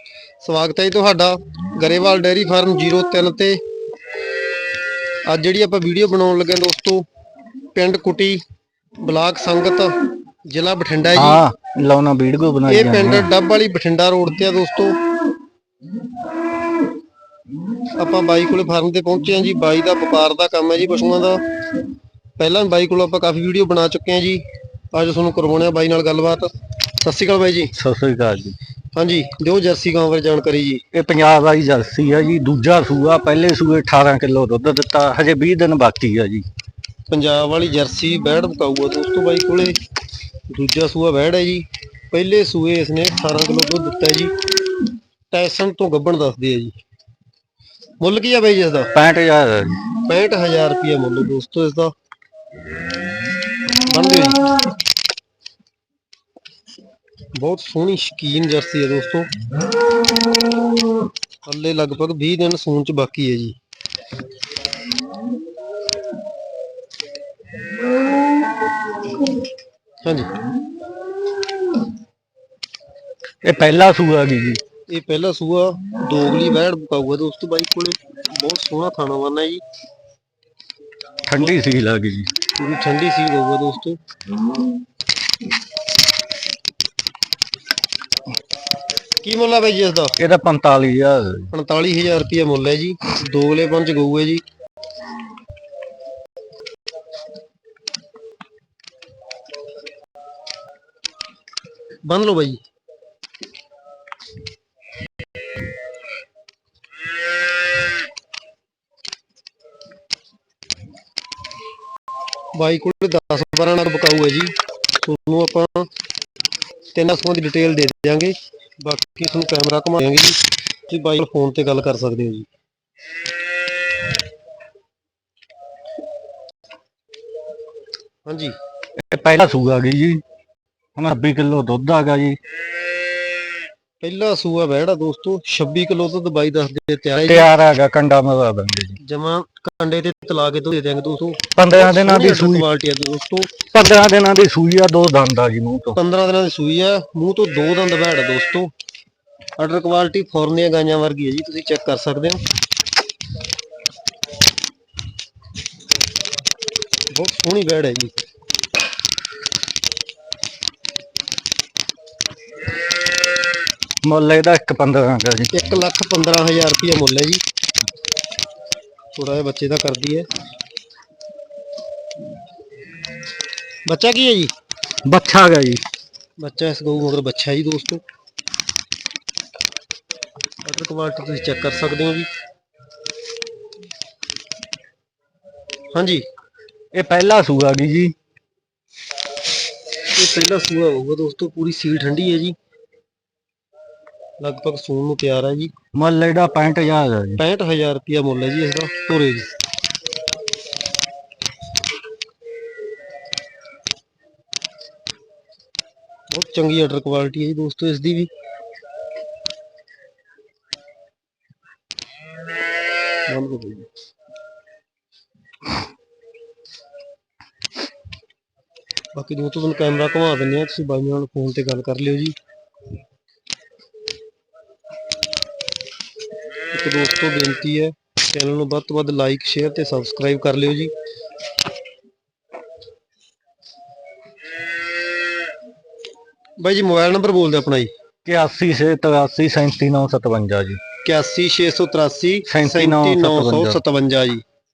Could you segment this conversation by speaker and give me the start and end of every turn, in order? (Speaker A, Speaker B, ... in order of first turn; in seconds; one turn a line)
Speaker A: 0.4-3.6
Speaker A: 5.3-7.0
Speaker A: 7.7-8.4
Speaker A: 9.0-9.9
Speaker A: 10.5-11.4
Speaker B: 11.2-13.3
Speaker A: 12.7-15.0
Speaker A: 18.0-21.4
Speaker A: 22.4-27.7
Speaker B: 27.7-28.6
Speaker A: 28.9-30.8
Speaker B: 30.9-36.5
Speaker A: 37.1-39.8
Speaker A: 40.5-44.3
Speaker A: 45.3-46.8
Speaker A: 48.0-48.9
Speaker B: 48.9-49.8
Speaker A: 50.0-51.9
Speaker A: 53.9-54.4
Speaker A: 57.3-59.3
Speaker A: 61.5-63.5
Speaker A: 70.0-70.3
Speaker B: 73.4-74.6
Speaker A: 74.9-79.6
Speaker B: 81.3-82.3
Speaker A: 82.6-84.0
Speaker A: 89.2-90.2
Speaker B: 90.2-91.5
Speaker A: 91.5-94.4
Speaker A: 102.1-102.6
Speaker A: 112.5-115.9
Speaker A: 116.9-122.5
Speaker A: 128.2-128.5
Speaker B: 129.0-130.2
Speaker B: 131.0-132.4
Speaker A: 134.0-137.5
Speaker B: 137.3-139.0
Speaker A: 139.0-143.5
Speaker B: 141.6-142.7
Speaker B: 143.7-146.0
Speaker A: 145.9-148.7
Speaker A: 149.6-152.4
Speaker A: 157.1-158.1
Speaker B: 164.0-165.5
Speaker A: 165.5-167.4
Speaker A: 169.1-170.3
Speaker A: 173.8-174.5
Speaker B: 175.1-175.8
Speaker A: 176.4-178.0
Speaker A: 180.6-182.3
Speaker A: 185.9-186.2
Speaker B: 186.9-188.1
Speaker A: 190.1-192.6
Speaker A: 194.4-195.7
Speaker B: 195.9-197.4
Speaker A: 197.4-199.5
Speaker A: 206.3-208.3
Speaker A: 213.3-213.9
Speaker A: 219.1-222.3
Speaker A: 226.7-230.9
Speaker A: 236.6-237.9
Speaker B: 238.2-240.8
Speaker A: 241.0-244.4
Speaker B: 242.4-243.8